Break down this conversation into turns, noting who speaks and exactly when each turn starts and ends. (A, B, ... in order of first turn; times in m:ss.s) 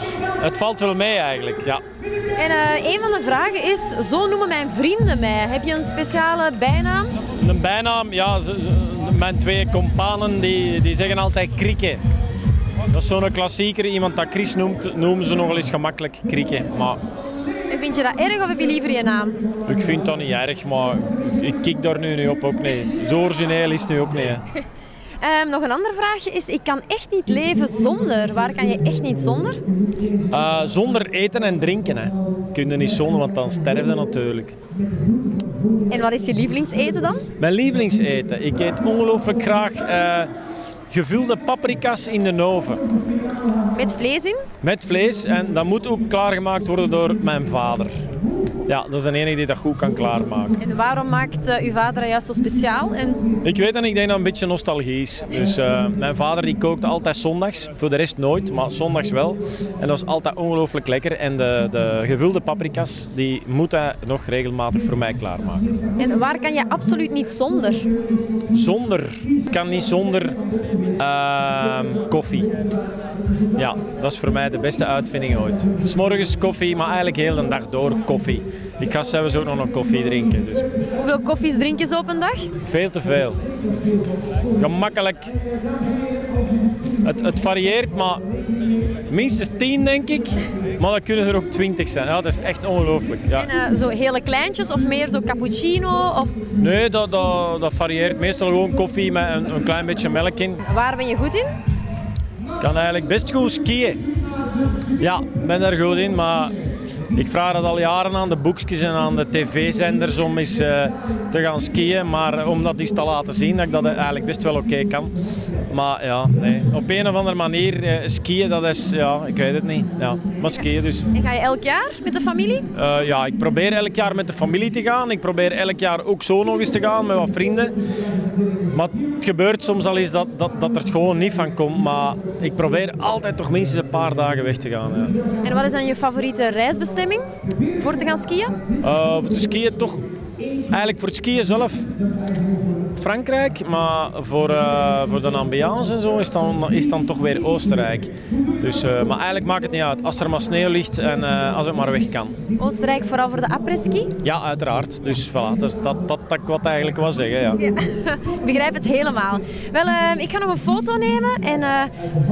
0:00.4-0:01.8 A
0:02.4-0:07.2 B
0:07.3-0:12.0 A
0:12.9-0:17.0 A
0:17.7-0:19.4 B
0:19.7-0:24.4 A
0:25.2-0:29.6 B
0:30.3-0:34.6 A
0:35.9-0:37.3 B
0:37.4-0:40.3 A
0:40.9-0:42.8 A
0:43.7-0:44.5 B
0:44.6-0:48.0 A
0:48.7-0:50.6 A
0:50.6-0:53.2 B
0:53.4-1:05.7 A
1:06.0-1:07.9 B
1:08.5-1:10.4 A
1:11.0-1:12.5 A
1:13.6-1:20.7 A
1:21.0-1:22.5 B
1:22.6-1:23.4 A
1:24.6-1:25.3 A
1:27.0-1:28.2 A
1:29.1-1:33.5 A
1:33.3-1:36.4 B
1:36.6-1:40.6 A
1:40.6-1:41.5 B
1:42.6-1:44.0 A
1:45.0-1:46.6 A
1:47.2-1:55.2 A
1:55.7-2:01.1 A
2:01.1-2:02.6 B
2:02.7-2:07.7 A
2:08.7-2:15.1 A
2:15.4-2:17.3 B
2:17.8-2:18.6 B
2:18.8-2:20.0 A
2:20.7-2:21.8 A
2:23.0-2:32.3 A
2:32.6-2:34.1 B
2:34.2-2:37.6 A
2:37.6-2:42.0 B